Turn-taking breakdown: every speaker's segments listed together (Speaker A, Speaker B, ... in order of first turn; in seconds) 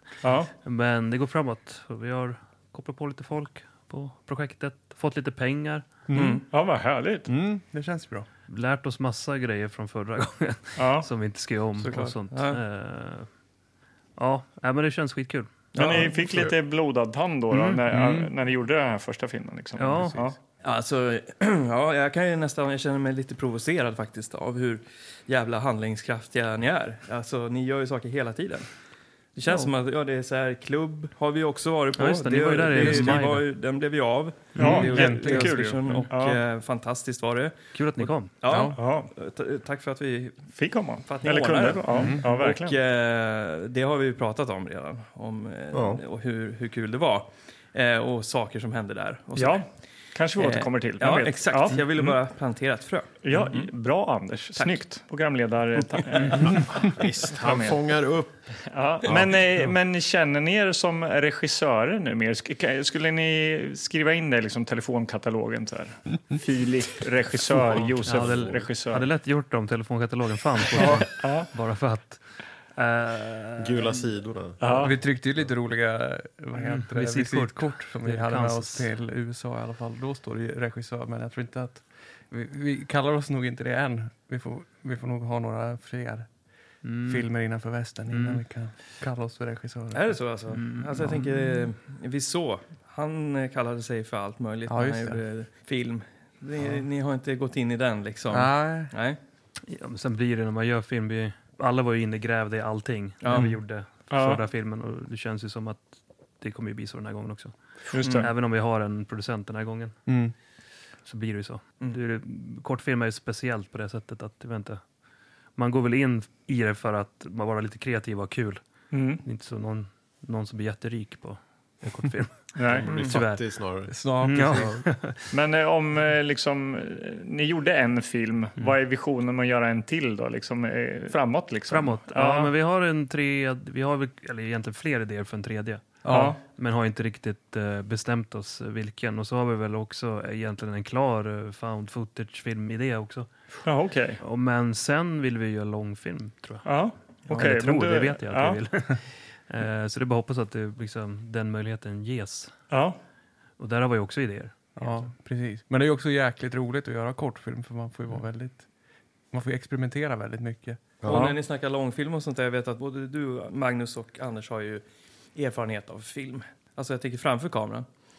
Speaker A: 0.2-0.5, 6.5-7.3, 10.8-11.1, 15.8-20.4, 34.6-36.4, 38.8-39.1, 40.6-42.8, 49.4-52.1, 53.2-57.8, 58.7-69.1, 70.8-71.5, 74.6-74.9, 104.1-104.4, 107.9-108.3, 118.9-119.2, 122.6-123.0, 125.3-132.5, 136.1-136.4, 143.7-144.2, 146.7-148.6, 152.7-153.0, 161.1-161.4
Speaker B: 0.6-5.9, 8.5-13.3, 14.2-15.5, 17.5-17.8, 19.8-20.2, 32.0-33.5, 34.6-34.9, 37.7-38.3, 67.7-72.2, 72.8-74.0, 76.6-78.9, 86.8-87.3, 88.1-88.4, 90.5-91.6, 99.7-107.5, 108.0-110.0, 111.1-114.8, 115.6-118.6, 119.2-123.5, 124.2-125.3, 131.7-143.3, 144.2-146.7, 147.3-152.5, 153.6-155.1
Speaker C: 6.1-6.4, 7.3-8.3, 11.8-12.2, 17.9-18.3, 34.6-36.1, 38.4-38.8, 41.9-42.3, 70.8-71.1, 74.7-86.3, 87.1-90.2, 94.7-95.2, 98.3-98.9, 110.1-110.3, 123.9-124.7, 136.0-136.4, 154.8-158.7, 159.3-160.8
Speaker D: 6.1-6.5, 12.3-12.6, 15.7-16.2, 20.6-28.7, 29.4-37.5, 38.3-40.4, 41.0-49.6, 50.4-53.6, 89.9-99.2, 103.2-103.6, 161.0-164.8, 165.3-167.9
Speaker E: 16.3-16.5, 45.7-46.0, 56.8-58.4, 59.0-59.4, 68.2-68.6, 73.6-74.6, 122.7-124.8, 161.0-161.3